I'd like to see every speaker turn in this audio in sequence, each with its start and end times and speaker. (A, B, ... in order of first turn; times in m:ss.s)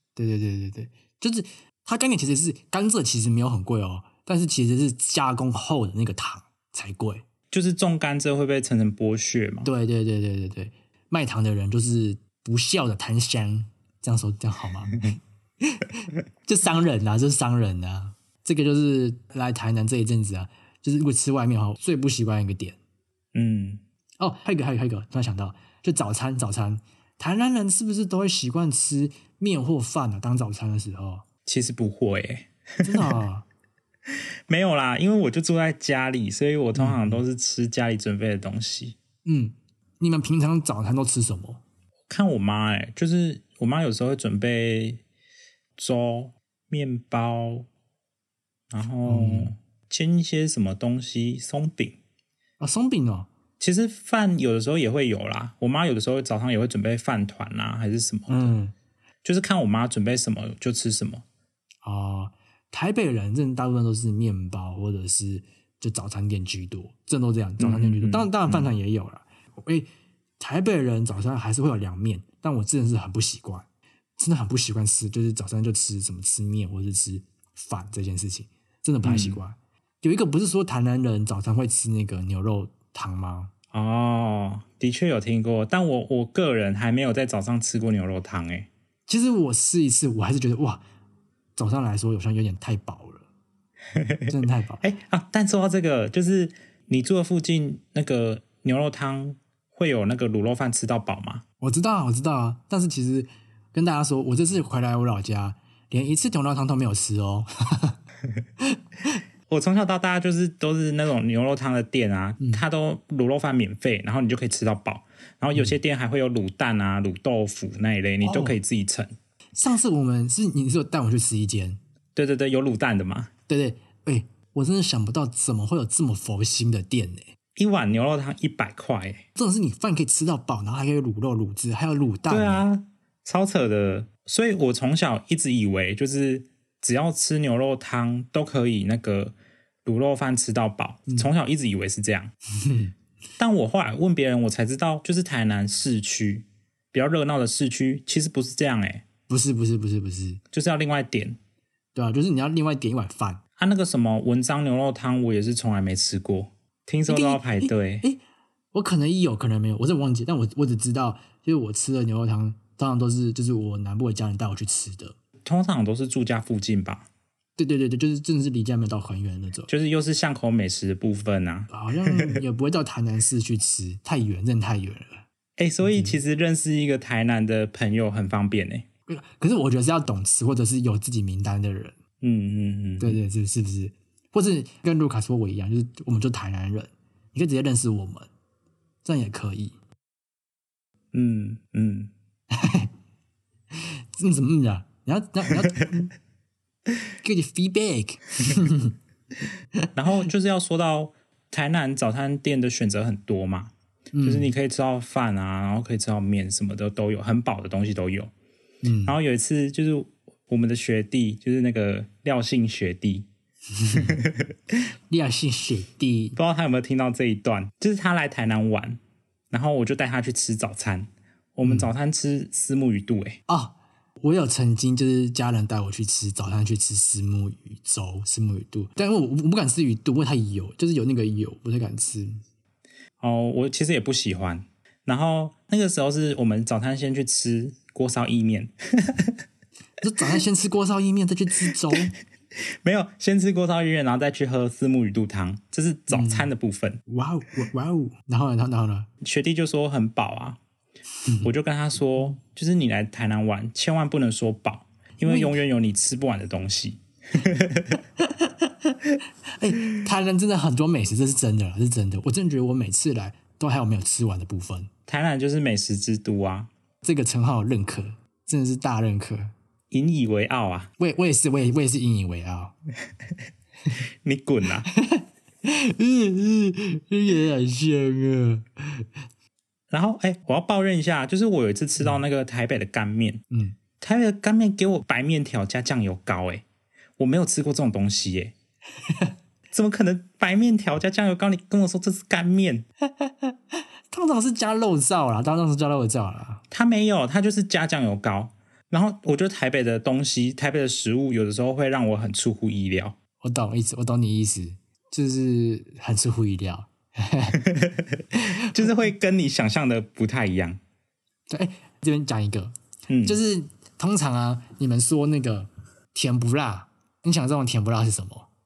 0:00.2-0:07.2 A
0:07.5-0:09.7 B
0:09.6-0:22.8 A
0:23.3-0:23.8 B
0:24.2-0:31.2 A
0:31.4-0:33.2 B
0:32.8-0:33.4 A
0:34.5-0:39.0 B
0:36.8-0:37.2 A
0:39.2-0:41.6 A
0:42.1-0:45.0 B
0:45.8-0:47.7 B
0:48.7-0:52.0 B
0:49.1-0:49.5 A
0:52.6-0:53.3 A
0:53.6-0:58.5 B
0:58.3-0:58.7 A
0:59.2-1:01.2 B
1:01.8-1:13.7 A
1:07.6-1:08.7 B
1:14.2-1:23.5 A
1:19.0-1:19.4 B
1:23.7-1:28.7 B
1:29.1-1:30.8 A
1:31.6-1:33.2 A
1:34.0-1:41.4 B
1:34.3-1:34.8 A
1:41.6-1:48.0 A
1:48.6-1:49.2 A
1:49.5-1:59.2 B
1:58.2-1:58.6 A
1:59.6-2:01.8 A
2:02.2-2:03.3 B
2:03.5-2:07.3 A
2:07.6-2:09.2 B
2:09.4-2:12.7 A
2:12.3-2:22.3 B
2:22.6-2:22.9 A
2:23.4-2:29.0 B
2:29.3-2:30.4 A
2:30.5-2:31.4 B
2:32.0-2:33.4 A
2:33.6-2:38.1 B
2:37.1-2:38.2 A
2:38.7-2:45.2 A
2:45.4-2:47.1 B
2:47.6-2:49.7 A
2:49.7-2:52.4 B
2:51.7-2:55.2 A
2:55.6-2:58.9 B
2:55.8-2:56.2 A
2:59.1-3:02.0 A
3:02.2-3:03.2 B
3:03.0-3:08.3 A
3:09.0-3:09.8 A
3:11.1-3:12.1 B
3:12.5-3:12.9 A
3:13.7-3:16.1 A
3:17.2-3:19.0 A
3:20.0-3:23.7 B
3:24.1-3:24.5 A
3:24.2-3:28.3 B
3:28.8-3:29.2 A
3:29.0-3:33.3 B
3:33.7-3:34.2 A
3:33.9-3:34.6 B
3:35.1-3:36.4 A
3:36.4-3:39.0 B
3:39.5-3:43.4 B
3:41.6-3:41.9 A
3:43.5-3:52.4 A
3:53.2-3:59.4 B
4:00.0-4:02.1 A
4:01.7-4:02.1 B
4:02.8-4:07.0 B
4:06.1-4:06.5 A
4:07.1-4:09.1 A
4:09.2-4:10.6 B
4:11.2-4:11.5 A
4:11.4-4:18.0 B
4:15.3-4:15.6 A
4:18.2-4:24.9 A
4:25.1-4:26.7 B
4:27.0-4:29.5 A
4:29.9-4:30.9 B
4:31.0-4:32.7 A
4:34.2-4:34.9 B
4:34.9-4:39.1 A
4:39.9-4:43.4 B
4:43.5-4:43.8 A
4:44.0-4:46.6 B
4:47.2-4:48.5 B
4:49.0-4:49.3 A
4:49.7-4:52.9 B
4:53.0-4:56.6 A
4:56.7-5:03.2 B
5:03.4-5:07.6 A
5:07.5-5:10.8 B
5:11.5-5:18.5 A
5:13.1-5:13.4 B